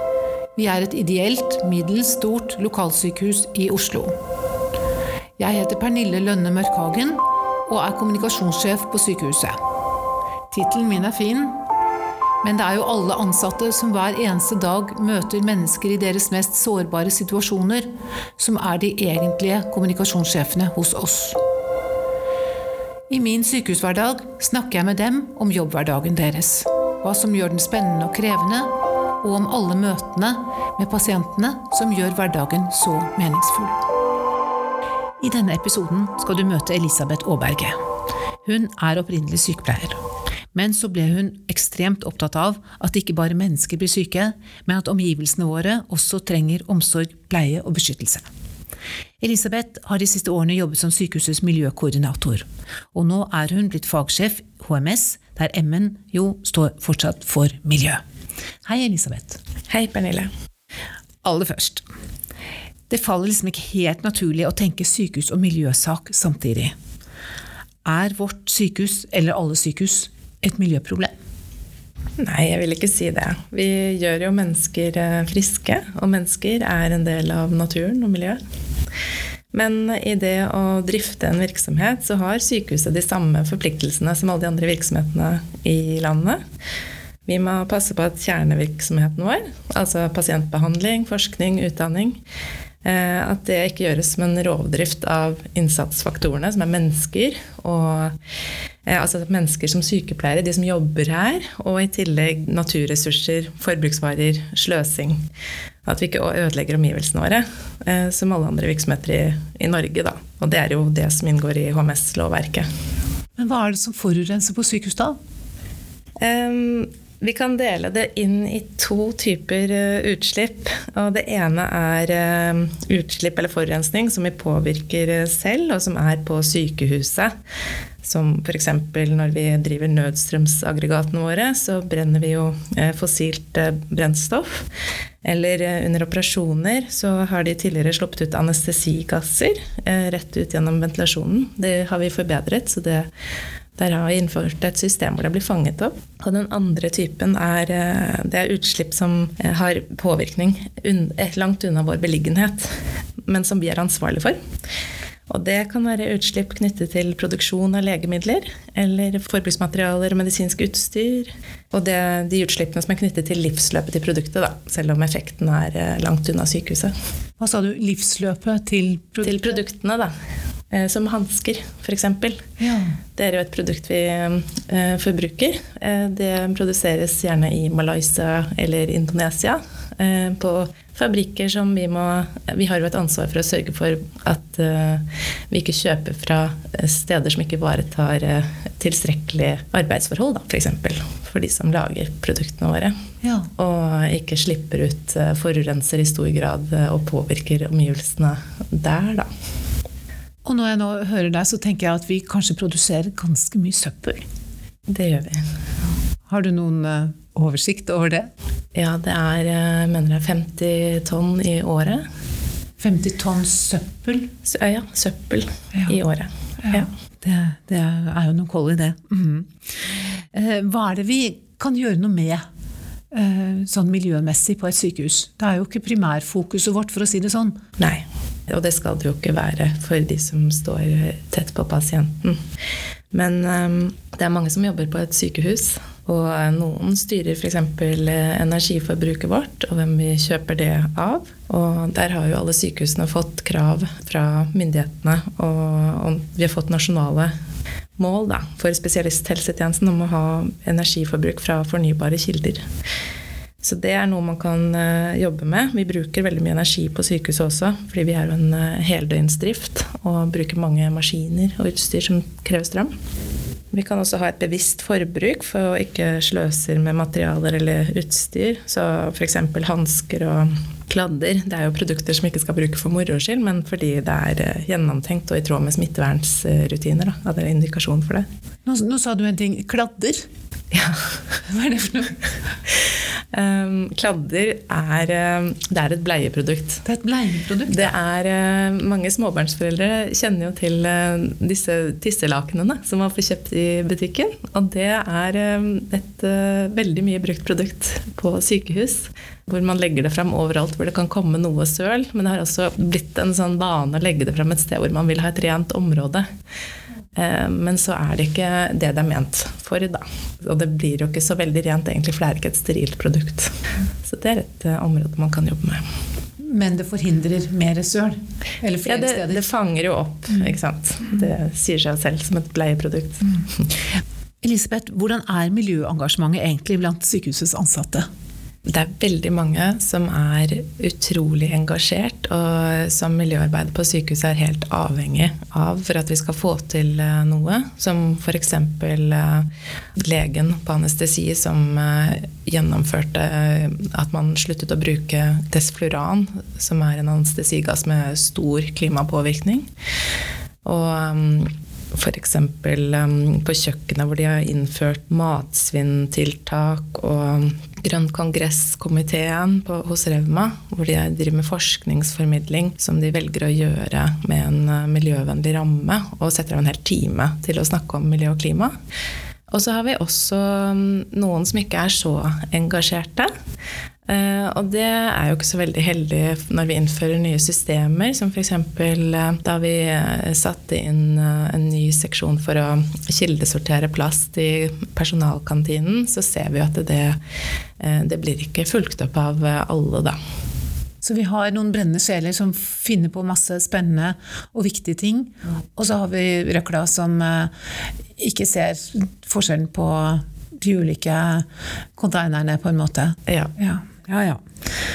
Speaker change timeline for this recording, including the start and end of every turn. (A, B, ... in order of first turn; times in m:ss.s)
0:00.6-0:04.1 A
0:05.4-0:09.6 A
0:10.5-0:11.6 A
0:12.4-0:17.8 A
0:18.4-0:21.4 A
0:23.1-0:33.8 A
0:35.2-0:37.8 A
0:38.4-0:40.0 A
0:40.5-0:48.2 A
0:49.2-0:58.0 A
0:58.6-0:59.4 A
0:59.7-1:00.3 B
1:01.2-1:01.8 A
1:02.9-1:06.7 A
1:07.8-1:11.1 A
1:12.2-1:18.4 B
1:19.5-1:26.4 B
1:27.2-1:32.2 B
1:32.8-1:38.2 B
1:38.8-1:45.2 B
1:45.8-1:52.7 B
1:53.4-1:55.2 A
1:56.2-2:07.3 B
2:08.0-2:14.6 B
2:15.2-2:23.1 B
2:23.8-2:32.7 B
2:33.2-2:34.4 B
2:35.3-2:46.9 B
2:47.4-2:49.6 A
2:49.2-2:50.1 B
2:50.7-2:52.4 B
2:52.6-2:53.0 A
2:53.2-3:12.9 B
3:13.2-3:13.5 A
3:13.6-3:19.3 B
3:20.4-3:24.2 A
3:24.9-3:25.4 B
3:26.3-3:28.3 A
3:28.7-3:32.0 B
3:32.8-3:34.3 A
3:34.4-3:36.9 B
3:36.6-3:42.4 A
3:43.1-3:47.6 A
3:47.8-3:52.4 B
3:53.1-4:07.3 B
4:08.0-4:12.6 B
4:13.6-4:22.9 B
4:23.7-4:38.2 B
4:38.6-4:40.3 A
4:40.7-4:41.1 B
4:41.5-4:42.2 A
4:43.3-4:46.8 B
4:46.8-4:47.9 A
4:47.7-5:06.2 B
5:07.2-5:13.5 B
5:14.0-5:15.8 B
5:16.4-5:19.4 A
5:18.8-5:23.7 B
5:24.4-5:28.1 A
5:28.7-5:49.7 B
5:50.6-6:08.7 B
6:09.5-6:13.3 B
6:14.1-6:27.2 B
6:27.8-6:30.2 B
6:31.0-6:37.5 A
6:38.2-6:41.4 A
6:42.0-6:44.4 A
6:43.3-6:43.5 B